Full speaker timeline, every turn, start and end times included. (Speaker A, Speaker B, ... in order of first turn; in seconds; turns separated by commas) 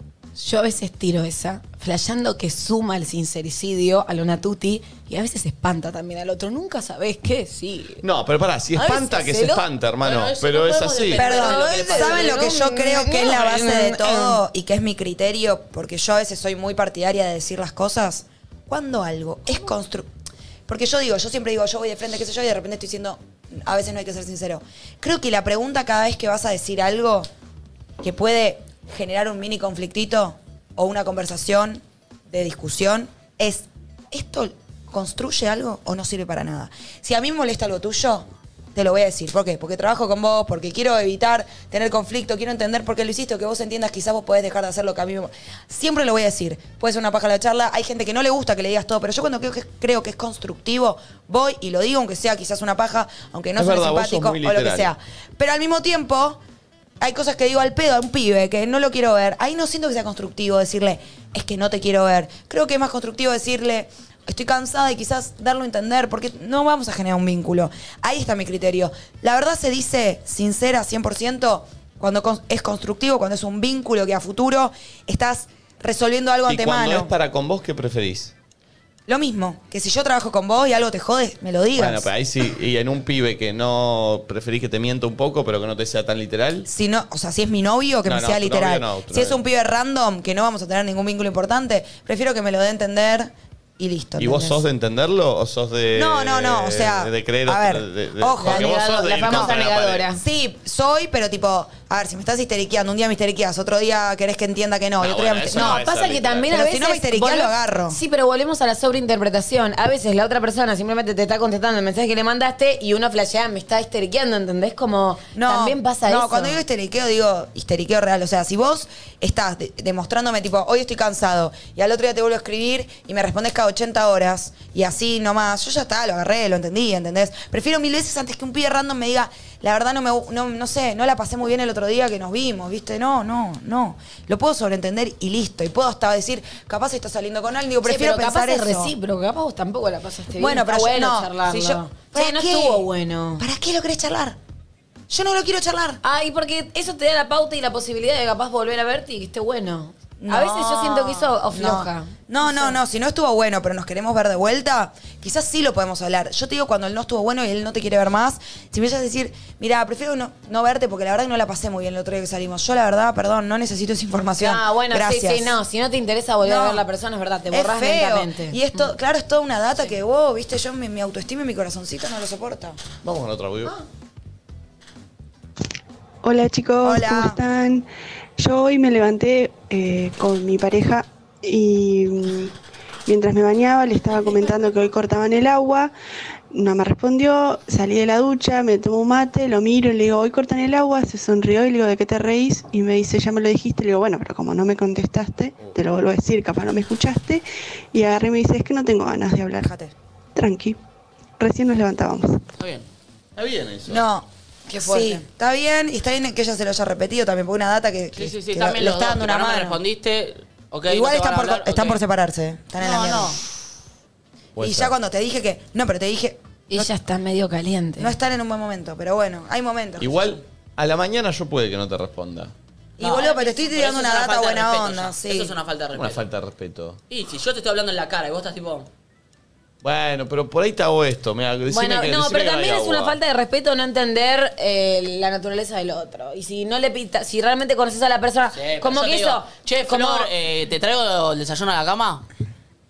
Speaker A: 0.4-8.0, Speaker B: 8.0-11.3, Speaker A: 8.7-9.6, Speaker C: 10.0-12.4, Speaker D: 11.2-20.1, Speaker A: 11.2-14.4, Speaker D: 20.7-27.3, Speaker D: 28.0-56.4, Speaker B: 53.6-54.9, Speaker D: 57.0-77.1, Speaker B: 76.5-78.3, Speaker D: 79.1-82.1, Speaker B: 81.8-86.7, Speaker D: 86.7-94.6, Speaker B: 88.1-89.4, Speaker B: 94.2-100.1, Speaker D: 96.0-99.6, Speaker A: 98.4-100.2, Speaker D: 100.2-105.8, Speaker B: 105.0-106.5, Speaker A: 105.5-116.6, Speaker D: 106.5-108.0, Speaker D: 115.3-138.9, Speaker A: 137.8-143.4, Speaker D: 140.4-144.4, Speaker D: 145.1-146.0, Speaker A: 146.0-152.8, Speaker D: 150.2-165.6, Speaker A: 164.4-168.9, Speaker D: 166.4-166.9, Speaker D: 167.5-172.8, Speaker B: 173.0-173.8, Speaker E: 176.2-177.9, Speaker D: 176.8-177.4, Speaker E: 178.4-182.5, Speaker E: 183.1-185.9, Speaker E: 186.5-199.7, Speaker D: 199.6-199.9, Speaker E: 200.3-200.8, Speaker E: 201.4-202.4, Speaker C: 202.6-202.9, Speaker B: 203.4-204.1, Speaker D: 203.9-204.3, Speaker A: 204.7-205.2, Speaker D: 204.8-209.8, Speaker C: 208.2-212.0, Speaker D: 210.9-213.4, Speaker C: 212.8-213.3, Speaker B: 214.6-214.9, Speaker D: 214.6-216.9, Speaker A: 216.7-218.1, Speaker D: 218.0-220.4, Speaker B: 220.0-222.5, Speaker D: 223.0-225.5, Speaker C: 223.0-226.2, Speaker B: 225.9-227.0, Speaker C: 227.1-228.9, Speaker B: 229.8-233.2, Speaker A: 231.7-240.3, Speaker C: 238.5-242.2